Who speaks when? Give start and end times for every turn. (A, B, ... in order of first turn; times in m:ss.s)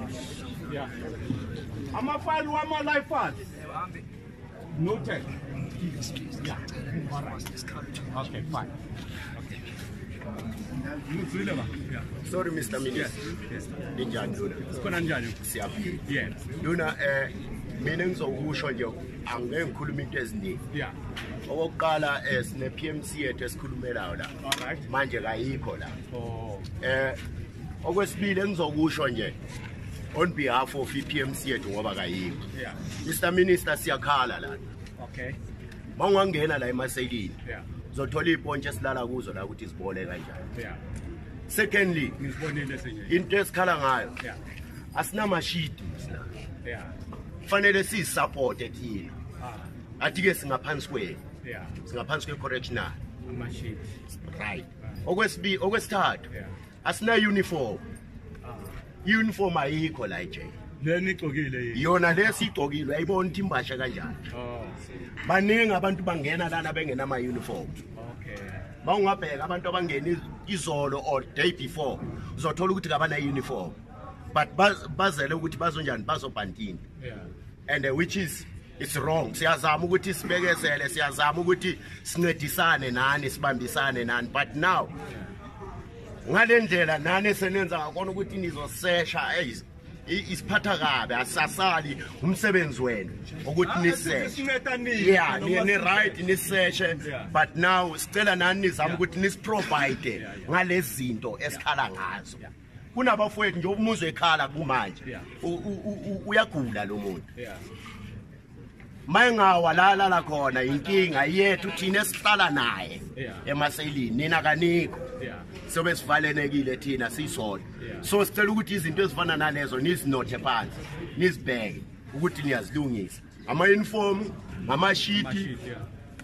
0:01.9-0:03.4 A
0:04.8-0:05.3 A
0:06.4-0:07.4 A
0:08.1-0:08.7 A
0:11.1-0:12.1 A
0:12.2-0:13.2 B
0:12.9-0:13.7 A
0:13.9-0:16.0 B
0:14.7-0:15.4 A
0:16.0-0:16.5 A
0:16.6-0:20.6 B
0:20.7-0:21.0 A
0:21.5-0:24.3 B
0:24.4-0:24.9 A
0:24.9-0:26.0 B
0:26.1-0:26.7 A
0:26.8-0:27.2 B
0:27.8-0:29.4 B
0:30.1-0:32.5 B
0:32.5-0:32.9 A
0:33.0-0:34.6 B
0:35.0-0:35.4 A
0:36.0-0:37.4 B
0:37.9-0:40.4 B
0:40.6-0:40.8 A
0:41.5-0:42.2 B
0:42.2-0:43.2 A
0:43.1-0:44.2 B
0:44.9-0:46.3 B
0:46.6-0:46.9 A
0:47.5-0:49.2 B
0:49.4-0:49.7 A
0:50.0-0:51.2 B
0:51.4-0:51.8 A
0:51.9-0:53.0 B
0:53.3-0:53.9 A
0:54.2-0:56.3 B
0:56.8-0:57.8 B
0:58.4-0:58.7 A
0:59.0-1:00.6 B
1:00.8-1:01.9 A
1:01.7-1:04.2 B
1:04.3-1:04.8 A
1:05.2-1:07.8 B
1:08.0-1:08.7 A
1:08.8-1:13.8 B
1:14.3-1:16.8 B
1:17.0-1:17.3 A
1:17.7-1:24.9 B
1:26.2-1:34.4 B
1:33.6-1:36.2 A
1:34.9-1:42.4 B
1:37.0-1:37.3 A
1:40.2-1:40.5 A
1:42.9-1:47.3 B
1:45.0-1:45.3 A
1:47.4-1:47.6 A
1:49.1-1:55.0 B
1:53.2-1:53.5 A
1:55.2-1:55.5 A
1:55.7-2:05.5 B
1:57.8-1:58.1 A
2:05.1-2:05.8 A